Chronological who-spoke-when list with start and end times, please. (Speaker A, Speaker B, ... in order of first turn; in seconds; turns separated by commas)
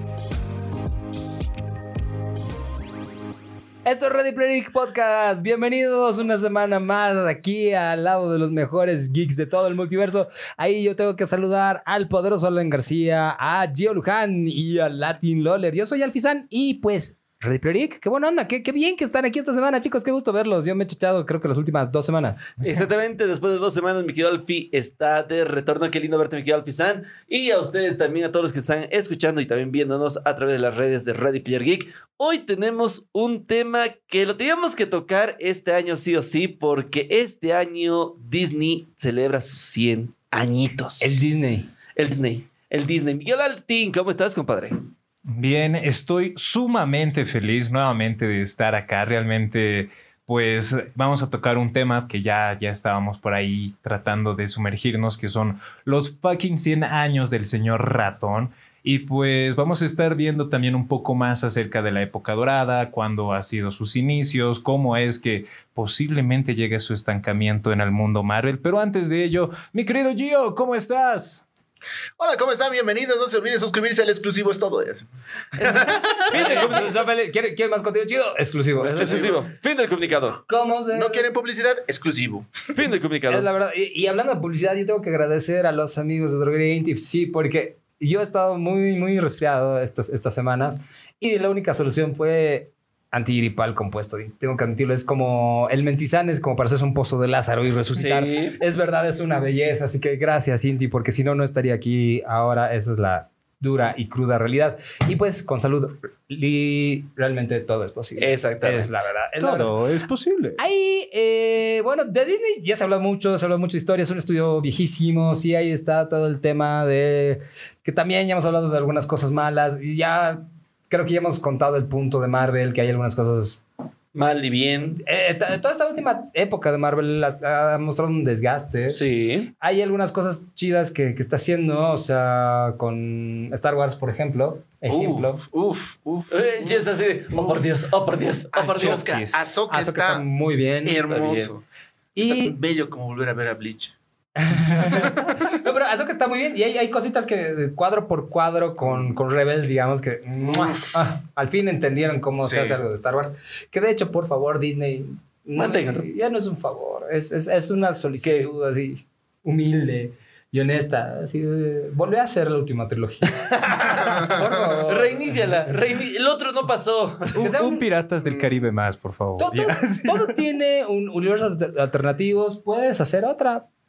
Speaker A: 3.8-22.6, Speaker B: 22.6-41.2, Speaker A: 41.0-41.7, Speaker B: 42.0-44.8, Speaker C: 45.3-71.4, Speaker D: 72.2-75.0, Speaker B: 75.6-77.0, Speaker D: 75.6-76.6, Speaker A: 76.3-79.3, Speaker D: 78.8-79.4, Speaker B: 79.0-80.4, Speaker A: 80.5-81.2, Speaker D: 80.9-82.7, Speaker B: 82.7-83.5, Speaker A: 83.3-109.7, Speaker B: 97.9-98.6, Speaker B: 108.2-109.0, Speaker C: 109.4-110.6, Speaker A: 110.6-123.6, Speaker B: 124.1-125.0, Speaker A: 125.0-129.0, Speaker B: 128.9-129.5, Speaker A: 129.6-135.4, Speaker D: 134.9-137.6, Speaker B: 136.3-139.1, Speaker D: 138.5-140.2, Speaker C: 138.8-139.5, Speaker A: 139.7-141.1, Speaker D: 140.8-141.6, Speaker B: 141.1-141.5, Speaker A: 142.1-142.6, Speaker D: 142.2-143.9, Speaker A: 144.3-165.7, Speaker D: 148.9-149.1, Speaker D: 150.4-150.8, Speaker D: 152.4-152.8, Speaker B: 155.5-156.1, Speaker B: 163.3-167.4, Speaker D: 164.2-164.8, Speaker C: 167.3-170.4, Speaker A: 167.3-167.8, Speaker D: 168.2-168.6, Speaker A: 169.4-173.7